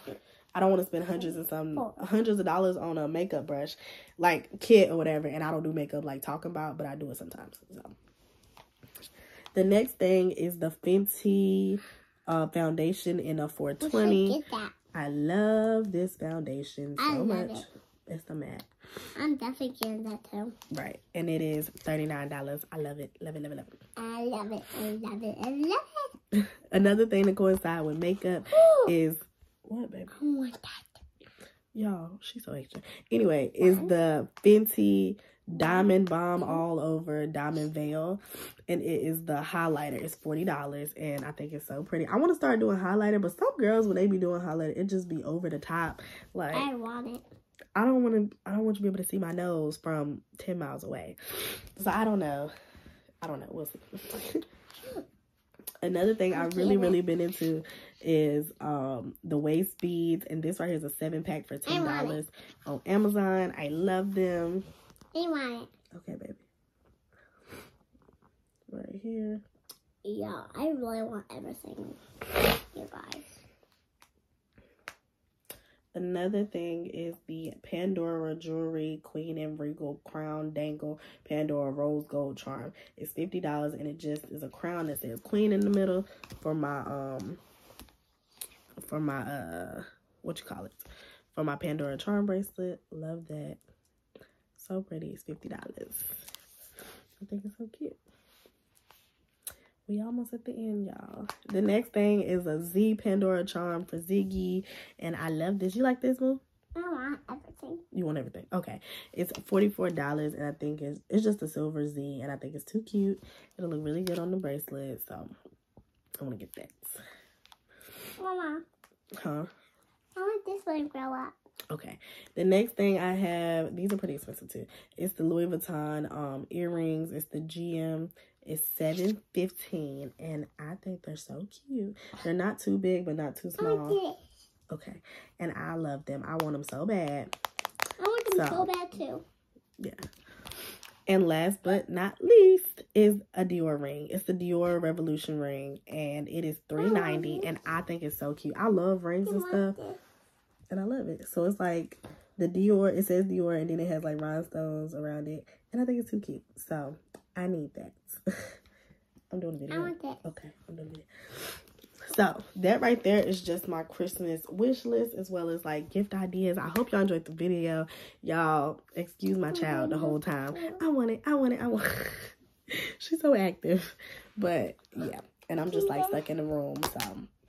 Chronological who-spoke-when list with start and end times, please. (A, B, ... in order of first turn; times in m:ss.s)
0:00.5-0:07.9 A
0:01.2-0:02.0 B
0:09.5-0:14.4 A
0:13.8-0:14.8 B
0:14.9-0:18.7 A
0:17.0-0:17.6 B
0:19.2-0:20.5 B
0:20.7-0:23.8 A
0:24.0-0:26.1 B
0:26.3-0:30.1 A
0:28.5-0:28.9 B
0:30.1-0:31.0 B
0:31.7-0:46.7 A
0:33.6-0:33.9 B
0:35.5-0:36.6 B
0:46.5-0:47.2 B
0:47.8-0:51.2 A
0:51.8-0:52.5 A
0:53.2-0:54.4 A
0:55.8-1:04.6 A
0:56.3-0:57.0 B
1:01.6-1:02.2 B
1:05.1-1:05.7 B
1:05.9-1:06.4 A
1:08.7-1:09.4 A
1:10.0-1:12.0 B
1:12.7-1:13.4 B
1:15.9-1:27.4 A
1:28.8-1:33.6 A
1:34.5-1:36.3 A
1:37.2-1:38.0 A
1:39.9-1:46.4 A
1:46.8-1:47.8 B
1:47.9-1:55.3 A
1:56.2-1:57.0 A
1:58.2-1:58.6 B
1:59.2-1:59.5 A
2:00.2-2:01.3 B
2:01.7-2:14.0 A
2:13.6-2:14.2 B
2:14.7-2:17.3 A
2:18.0-2:19.2 B
2:18.3-2:18.7 A
2:21.1-2:29.8 A
2:26.8-2:27.6 B
2:29.2-2:30.0 B
2:30.7-2:38.2 A
2:39.3-2:57.3 A
2:39.7-2:40.2 B
2:49.5-2:50.8 B
2:55.6-2:56.2 B